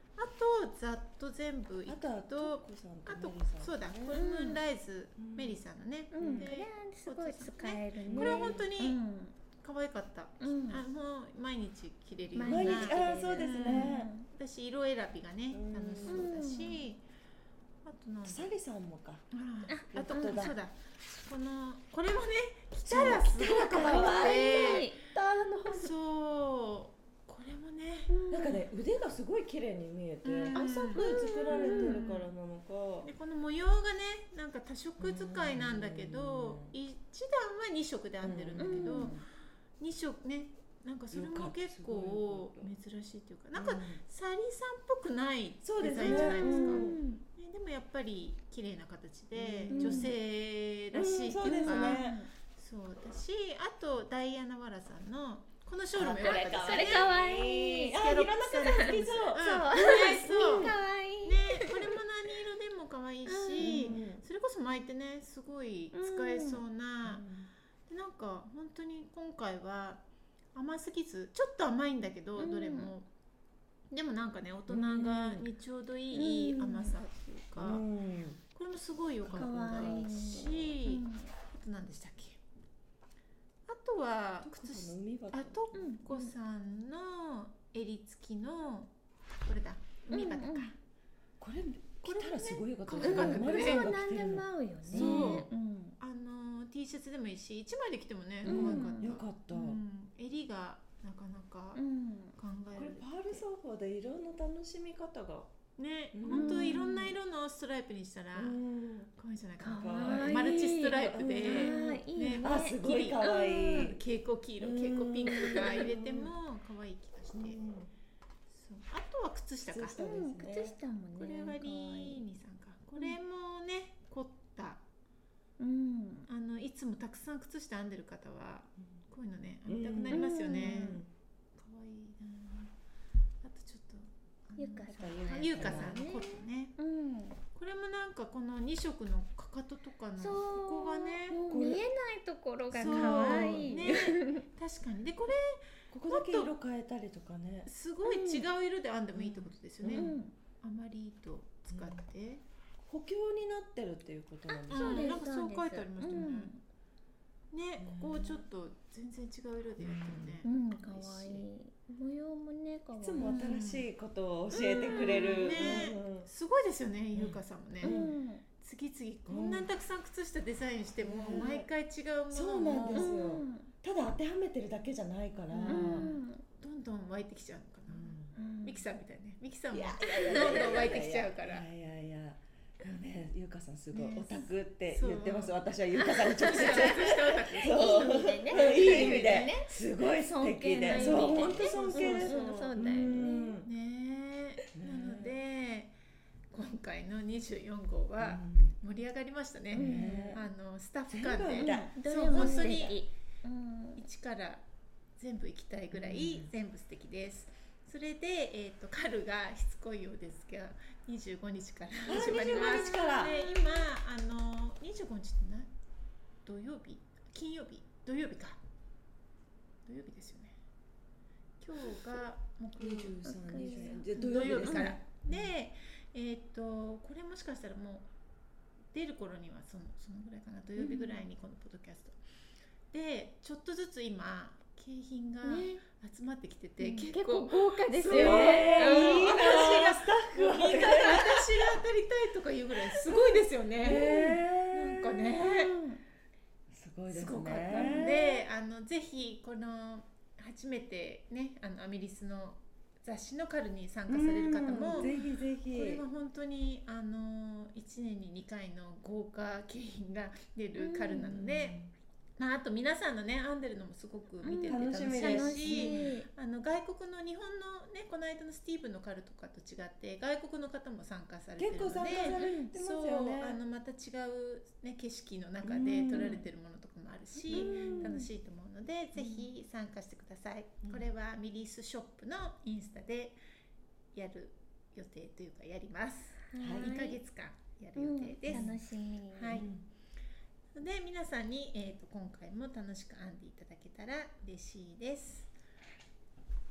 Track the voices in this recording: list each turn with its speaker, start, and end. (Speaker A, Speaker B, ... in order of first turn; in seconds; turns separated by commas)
Speaker A: 0.2-9.0, Speaker B: 1.9-4.2, Speaker C: 4.1-4.6, Speaker B: 5.2-5.6, Speaker C: 6.1-9.4, Speaker B: 6.2-6.5, Speaker B: 8.0-8.7, Speaker A: 9.6-17.0, Speaker C: 10.4-10.8, Speaker C: 12.3-14.3, Speaker B: 12.4-14.1, Speaker B: 15.5-16.3, Speaker C: 16.1-16.9, Speaker A: 17.9-18.5, Speaker B: 18.2-19.2, Speaker A: 19.3-24.9, Speaker C: 19.7-20.6, Speaker B: 19.9-20.6, Speaker B: 22.9-25.9, Speaker C: 23.5-25.0, Speaker A: 25.7-28.1, Speaker C: 28.1-28.7, Speaker B: 28.3-33.1, Speaker A: 30.2-32.3, Speaker C: 30.5-32.0, Speaker A: 33.0-39.2, Speaker B: 35.0-36.8, Speaker B: 38.2-39.3, Speaker C: 38.6-39.1, Speaker A: 39.8-57.1, Speaker B: 41.1-42.7, Speaker B: 43.5-44.0, Speaker B: 45.6-47.0, Speaker C: 46.0-47.2, Speaker B: 49.4-50.1, Speaker C: 49.7-50.1, Speaker B: 50.9-52.2, Speaker C: 51.4-52.3, Speaker B: 55.9-60.8, Speaker C: 56.1-58.0, Speaker A: 57.9-67.3, Speaker C: 58.6-61.9, Speaker C: 63.3-64.0, Speaker B: 63.6-64.2, Speaker C: 65.9-66.6, Speaker B: 67.0-67.5, Speaker A: 67.9-70.0, Speaker A: 70.5-73.1, Speaker C: 72.4-73.0, Speaker A: 73.9-77.8, Speaker B: 74.7-75.5, Speaker C: 76.1-77.0, Speaker B: 77.6-78.4, Speaker A: 78.5-82.4, Speaker B: 79.2-80.1, Speaker C: 79.3-81.3, Speaker A: 83.7-88.9, Speaker B: 84.4-85.8, Speaker C: 85.7-86.3, Speaker A: 89.5-90.8, Speaker C: 90.1-90.7, Speaker B: 91.4-95.5, Speaker A: 92.0-93.9, Speaker C: 93.0-96.0, Speaker A: 94.9-101.8, Speaker C: 98.4-99.2, Speaker B: 98.4-99.8, Speaker C: 101.8-102.3, Speaker A: 102.3-103.5, Speaker B: 102.7-105.5, Speaker A: 105.8-108.6, Speaker B: 106.1-106.8, Speaker C: 106.3-107.2, Speaker B: 108.3-109.1, Speaker A: 109.2-117.6, Speaker C: 109.6-114.0, Speaker B: 109.7-114.0, Speaker B: 114.6-116.3, Speaker C: 115.3-115.9, Speaker B: 117.3-117.9, Speaker A: 118.5-120.0, Speaker B: 119.7-120.8, Speaker C: 120.0-122.2, Speaker A: 121.2-124.8, Speaker C: 125.6-126.3, Speaker A: 126.3-132.7, Speaker B: 129.7-131.1, Speaker C: 130.1-130.9, Speaker A: 133.4-136.8, Speaker C: 134.6-137.4, Speaker B: 135.0-136.0, Speaker A: 137.6-141.4, Speaker C: 140.2-144.4, Speaker B: 141.5-141.8, Speaker A: 142.7-146.5, Speaker B: 142.7-144.0, Speaker B: 145.9-147.7, Speaker A: 147.7-152.4, Speaker C: 148.1-148.5, Speaker B: 149.1-150.2, Speaker C: 149.9-150.3, Speaker B: 151.7-152.0, Speaker B: 152.8-155.2, Speaker A: 154.7-156.6, Speaker C: 154.7-156.6, Speaker A: 157.5-161.5, Speaker B: 157.8-158.4, Speaker B: 159.8-160.4, Speaker C: 160.4-163.7, Speaker B: 163.0-166.3, Speaker A: 163.2-163.9, Speaker C: 164.5-165.9, Speaker A: 164.6-173.1, Speaker B: 167.1-168.2, Speaker C: 167.8-168.4, Speaker B: 169.3-169.7, Speaker B: 171.0-171.7, Speaker B: 172.3-176.1, Speaker C: 172.9-173.7, Speaker A: 175.5-181.7, Speaker C: 175.7-176.4, Speaker B: 177.9-178.3, Speaker C: 178.3-178.8, Speaker B: 179.7-193.7, Speaker C: 180.1-180.8, Speaker A: 183.9-185.6, Speaker C: 185.9-193.6, Speaker A: 186.4-189.5, Speaker A: 190.8-192.7, Speaker A: 193.6-196.0, Speaker B: 194.8-195.3, Speaker A: 196.5-203.0, Speaker B: 198.2-198.8, Speaker C: 199.7-200.4, Speaker B: 199.7-200.4, Speaker B: 201.1-202.7, Speaker C: 201.6-204.0, Speaker A: 204.0-204.7, Speaker A: 205.2-215.7, Speaker B: 205.9-206.5, Speaker B: 212.1-213.5, Speaker A: 216.4-218.6, Speaker A: 219.9-220.6, Speaker A: 221.6-228.1, Speaker B: 222.8-225.5, Speaker C: 223.2-225.0, Speaker A: 228.9-232.2, Speaker C: 230.8-231.2, Speaker A: 232.9-245.8, Speaker C: 235.4-235.8, Speaker C: 236.8-239.9, Speaker B: 238.1-241.5, Speaker B: 242.9-245.5, Speaker C: 245.4-246.0, Speaker B: 246.7-248.2, Speaker A: 247.1-255.1, Speaker C: 247.7-248.4, Speaker B: 254.1-256.0, Speaker A: 255.7-261.8, Speaker C: 260.8-261.4, Speaker B: 261.3-261.9, Speaker A: 262.4-283.4, Speaker C: 264.4-266.3, Speaker B: 264.7-266.1, Speaker B: 271.6-273.6, Speaker C: 272.3-272.7, Speaker B: 275.6-276.5, Speaker C: 277.4-278.3, Speaker B: 277.5-278.2, Speaker C: 279.2-279.5, Speaker A: 284.1-288.8, Speaker C: 286.5-287.2, Speaker B: 286.6-286.9, Speaker C: 288.0-289.7, Speaker B: 288.5-288.8, Speaker A: 289.3-289.7, Speaker B: 289.5-289.8, Speaker A: 290.8-295.5